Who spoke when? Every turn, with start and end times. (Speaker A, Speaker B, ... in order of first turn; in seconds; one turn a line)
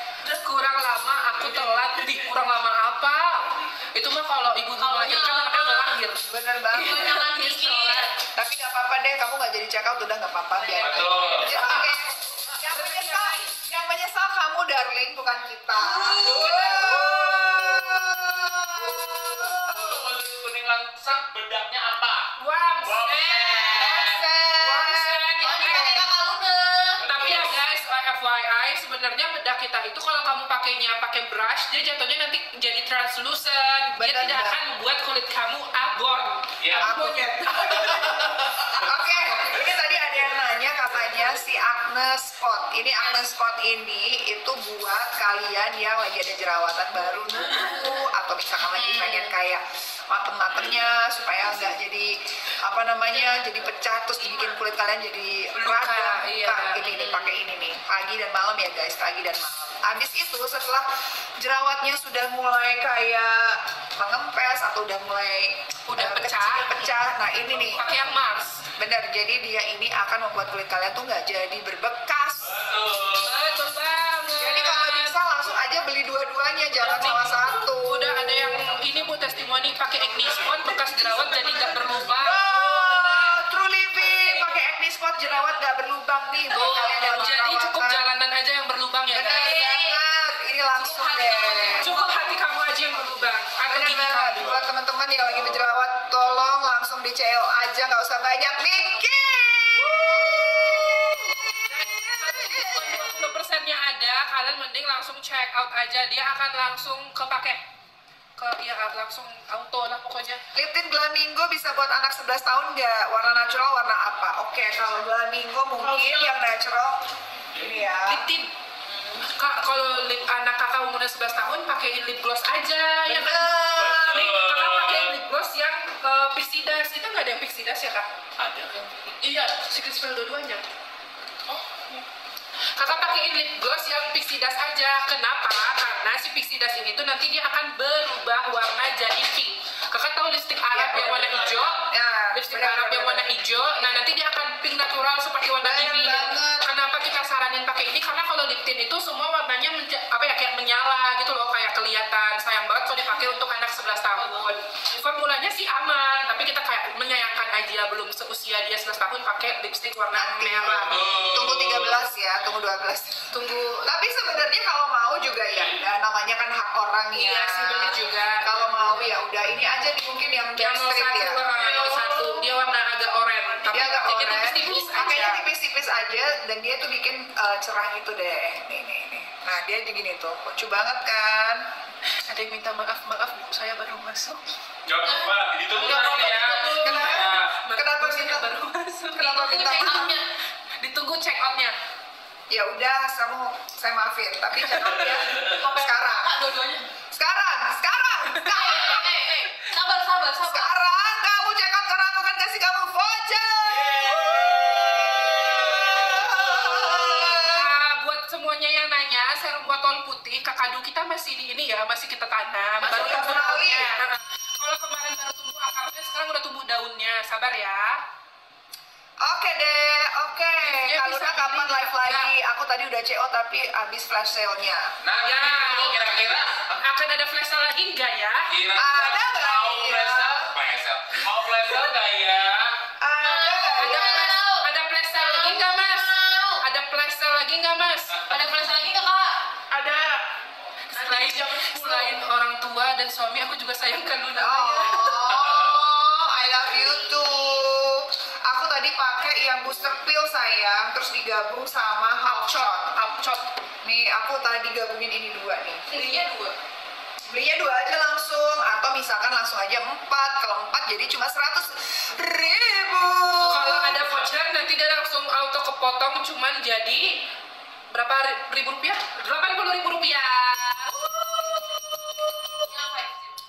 Speaker A: 0.2-8.1
Speaker B: 0.4-2.5
Speaker B: 4.8-6.0
Speaker C: 6.2-7.1
Speaker B: 6.8-8.1
Speaker C: 8.3-20.2
Speaker B: 10.6-12.0
Speaker D: 10.8-11.5
Speaker A: 11.4-11.9
Speaker A: 12.7-13.6
Speaker A: 15.8-18.1
Speaker B: 16.1-16.9
Speaker D: 19.7-22.3
Speaker A: 22.4-26.1
Speaker D: 22.8-24.2
Speaker C: 23.8-26.1
Speaker B: 25.4-27.3
Speaker D: 27.0-27.6
Speaker A: 27.1-38.2
Speaker C: 34.0-34.6
Speaker D: 36.6-36.9
Speaker C: 36.8-67.8
Speaker D: 37.7-38.8
Speaker B: 43.0-43.3
Speaker A: 47.3-47.8
Speaker A: 48.7-49.3
Speaker B: 53.2-53.7
Speaker A: 55.6-57.3
Speaker A: 65.9-68.7
Speaker C: 68.8-72.6
Speaker D: 72.4-73.6
Speaker A: 73.2-75.2
Speaker C: 74.4-78.8
Speaker A: 76.8-83.2
Speaker C: 80.0-88.0
Speaker D: 80.4-80.7
Speaker B: 81.5-81.8
Speaker A: 86.5-89.6
Speaker C: 89.1-91.9
Speaker B: 89.3-90.0
Speaker B: 90.7-93.1
Speaker A: 91.7-94.5
Speaker C: 93.7-103.2
Speaker A: 99.8-100.3
Speaker A: 101.7-107.6
Speaker A: 108.4-110.4
Speaker C: 110.5-118.3
Speaker B: 115.8-116.3
Speaker A: 118.1-118.5
Speaker A: 119.2-128.1
Speaker C: 123.1-124.3
Speaker D: 123.7-125.2
Speaker D: 128.4-129.5
Speaker A: 129.5-130.6
Speaker A: 132.8-141.8
Speaker C: 140.7-143.3
Speaker D: 140.9-141.7
Speaker A: 142.3-161.2
Speaker C: 145.6-146.7
Speaker B: 154.2-154.5
Speaker C: 160.1-171.5
Speaker D: 160.8-162.1
Speaker A: 163.3-163.9
Speaker A: 167.1-169.2
Speaker A: 170.6-175.4
Speaker D: 171.7-172.0
Speaker B: 171.8-172.4
Speaker B: 173.5-174.0
Speaker C: 173.7-181.7
Speaker A: 182.3-184.4
Speaker D: 184.9-187.5
Speaker B: 185.1-186.9
Speaker A: 185.8-190.1
Speaker C: 186.8-188.5
Speaker C: 189.2-190.1
Speaker B: 189.5-190.2
Speaker A: 190.8-191.7
Speaker C: 192.5-196.4
Speaker A: 194.6-194.9
Speaker D: 194.9-195.6
Speaker B: 195.4-196.9
Speaker C: 197.1-199.2
Speaker A: 198.3-199.1
Speaker B: 198.5-200.8
Speaker C: 200.4-207.7
Speaker D: 203.7-207.2
Speaker A: 207.4-218.0
Speaker C: 212.8-214.1
Speaker C: 219.2-224.9
Speaker A: 220.5-222.3
Speaker D: 225.0-226.8
Speaker A: 225.2-228.5
Speaker D: 228.5-232.7
Speaker C: 228.8-230.5
Speaker C: 233.0-234.4
Speaker B: 233.2-236.6
Speaker A: 233.7-238.3
Speaker B: 238.3-240.2
Speaker A: 240.9-245.4
Speaker B: 240.9-242.2
Speaker C: 244.4-252.9
Speaker D: 245.4-245.7
Speaker A: 252.2-253.5
Speaker C: 253.8-256.0
Speaker A: 255.9-256.6
Speaker C: 257.3-264.1
Speaker A: 263.4-267.2
Speaker A: 267.9-271.0
Speaker C: 270.9-271.6
Speaker B: 272.5-273.4